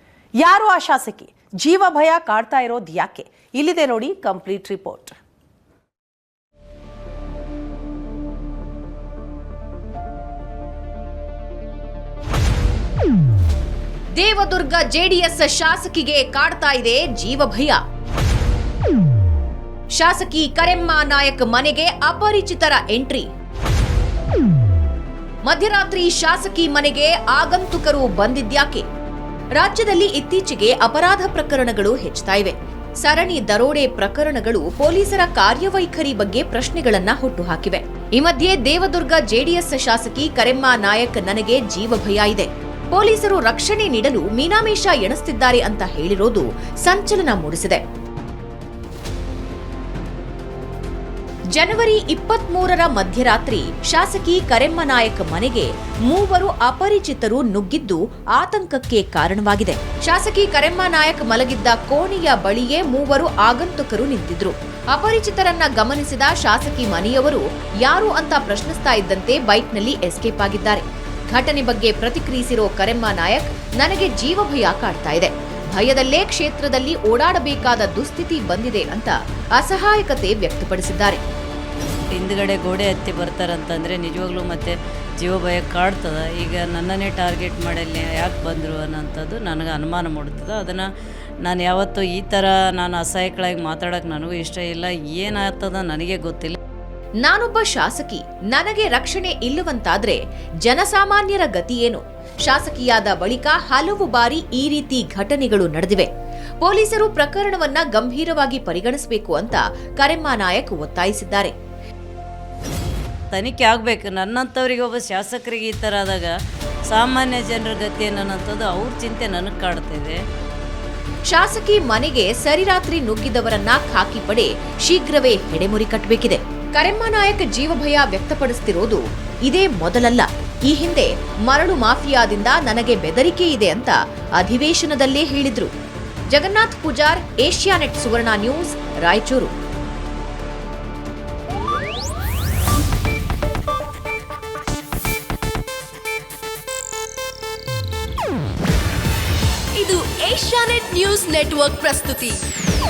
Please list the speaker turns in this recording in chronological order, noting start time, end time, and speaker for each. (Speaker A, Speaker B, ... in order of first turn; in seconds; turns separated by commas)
Speaker A: 0.4-5.2, Speaker B: 14.2-17.8, Speaker B: 20.0-23.3, Speaker B: 25.4-28.8, Speaker B: 29.6-47.8, Speaker B: 51.5-81.2, Speaker C: 82.1-90.8, Speaker C: 91.4-96.5, Speaker B: 97.2-106.1, Speaker B: 106.6-111.5, Speaker C: 113.3-116.3, Speaker C: 116.9-120.2, Speaker B: 121.3-135.7, Speaker B: 136.3-139.5, Speaker D: 149.7-152.4